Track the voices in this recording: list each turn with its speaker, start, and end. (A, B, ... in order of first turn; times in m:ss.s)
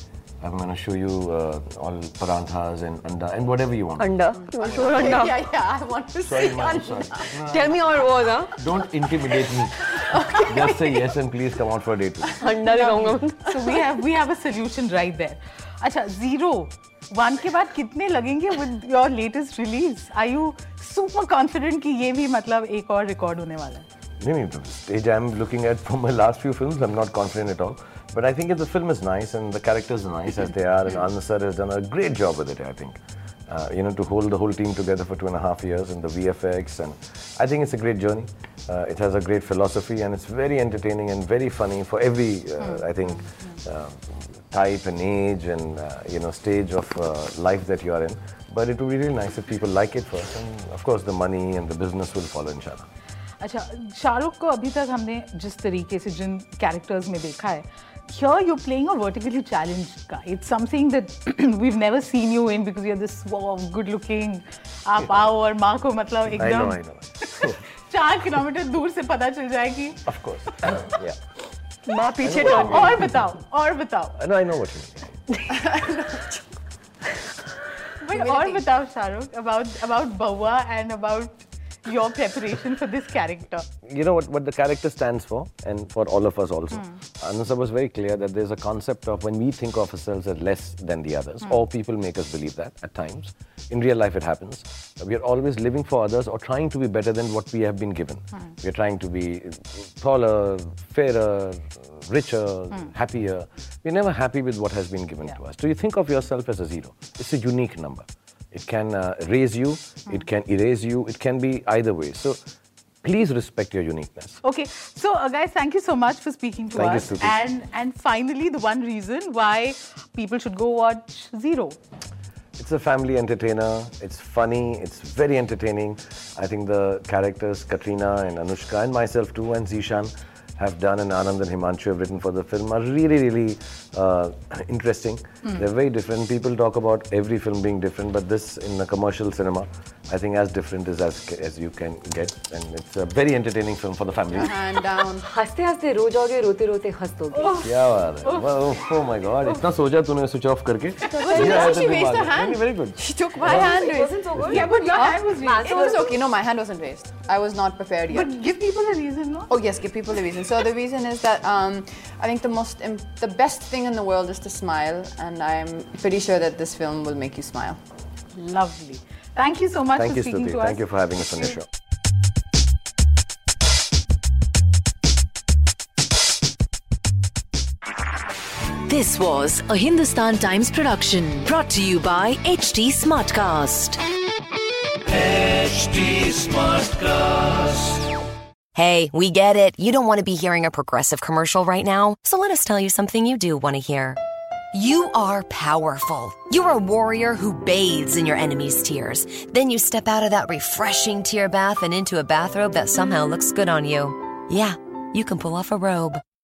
0:00.4-0:05.1 A
0:04.0-0:05.4 B
0:04.4-0:07.3 C
0:06.2-0:07.9 A
0:06.7-0:08.7 B
0:08.5-0:12.4 A
0:09.9-0:11.0 C
0:12.3-0:13.6 C
0:12.4-0:13.4 B
0:13.4-0:23.8 D
0:24.2-0:52.9 A
0:53.4-1:10.0 D
1:05.0-1:05.3 A
1:06.3-1:07.6 A
1:10.0-1:11.2 A
1:11.8-1:13.1 B
1:12.2-1:13.3 A
1:12.4-1:14.2 D
1:14.2-1:15.2 A
1:15.5-1:16.4 C
1:18.0-1:23.7 D
1:18.1-1:18.6 C
1:23.8-1:52.4 A
1:53.0-1:54.4 A
1:54.4-2:01.8 D
1:56.7-1:57.4 A
2:02.6-2:24.6 A
2:24.4-2:25.2 C
2:25.2-2:27.6 B
2:27.3-2:28.8 D
2:27.6-2:33.8 A
2:31.1-2:31.9 B
2:31.2-2:38.3 C
2:31.2-2:31.7 D
2:33.4-2:36.1 B
2:34.3-2:34.7 A
2:34.4-2:36.2 D
2:38.1-2:39.5 D
2:39.5-2:47.8 C
2:48.3-2:51.5 D
2:49.9-2:51.7 A
2:58.9-3:04.0 E
3:08.7-3:14.2 F
3:14.7-3:26.2 F
3:25.2-3:25.9 B